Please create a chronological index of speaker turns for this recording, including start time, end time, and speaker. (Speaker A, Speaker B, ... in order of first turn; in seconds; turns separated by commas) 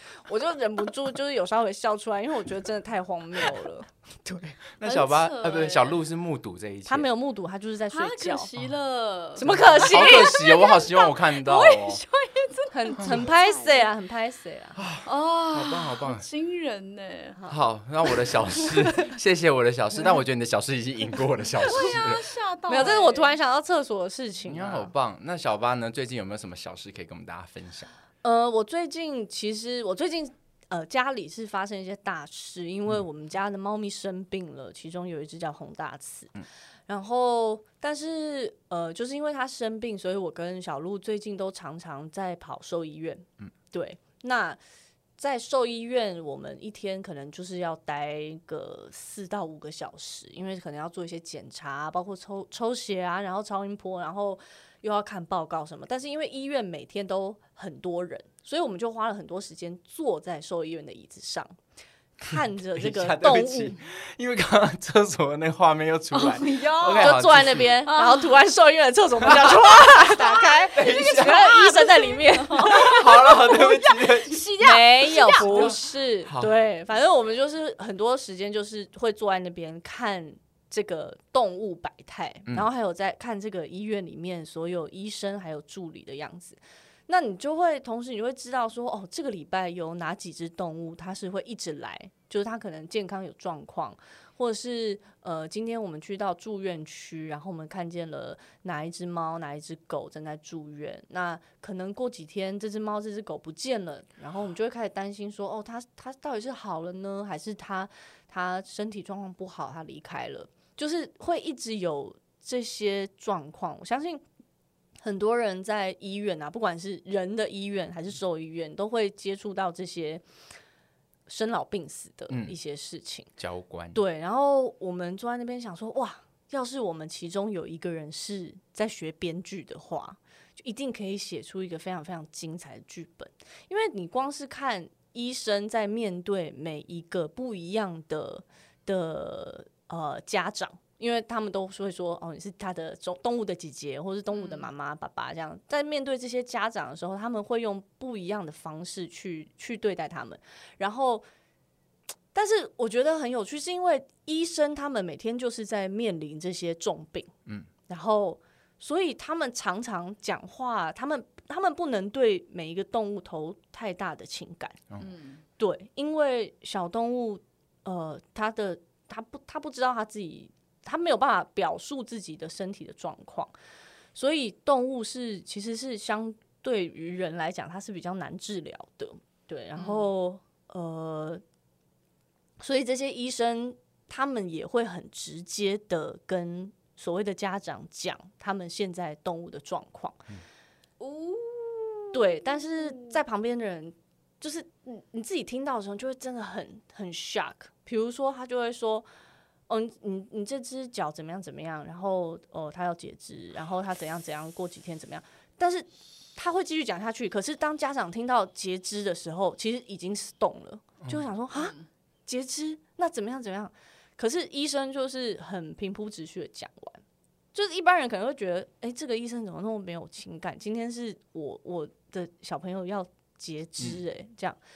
Speaker A: 0.2-4.5, Speaker B: 4.8-7.1, Speaker C: 4.8-6.0, Speaker A: 6.8-8.5, Speaker C: 7.9-13.9, Speaker A: 9.4-10.3, Speaker B: 9.4-12.0, Speaker A: 12.7-14.8, Speaker B: 13.0-13.3, Speaker B: 14.8-16.2, Speaker C: 15.0-17.4, Speaker B: 17.5-22.2, Speaker C: 21.6-23.4, Speaker A: 22.7-24.9, Speaker B: 24.5-27.9, Speaker A: 28.2-44.6, Speaker A: 45.2-61.5, Speaker A: 62.2-63.8, Speaker B: 62.8-67.7, Speaker C: 66.1-67.2, Speaker A: 67.0-73.0, Speaker C: 67.8-68.3, Speaker C: 70.2-75.8, Speaker B: 70.2-71.5, Speaker B: 72.6-74.4, Speaker A: 74.6-114.2, Speaker B: 75.4-76.5, Speaker A: 115.0-120.2, Speaker A: 121.3-123.3, Speaker B: 122.3-122.6, Speaker B: 123.4-124.0, Speaker A: 123.9-151.2, Speaker C: 144.3-144.7, Speaker A: 152.3-157.3, Speaker A: 157.9-164.8, Speaker C: 165.0-165.4, Speaker A: 165.6-173.5, Speaker A: 174.1-181.4, Speaker C: 179.8-180.1, Speaker A: 182.6-190.2, Speaker C: 191.0-192.2, Speaker A: 192.1-199.1, Speaker A: 199.7-211.7, Speaker C: 211.5-211.9, Speaker A: 212.3-217.0, Speaker A: 217.5-224.6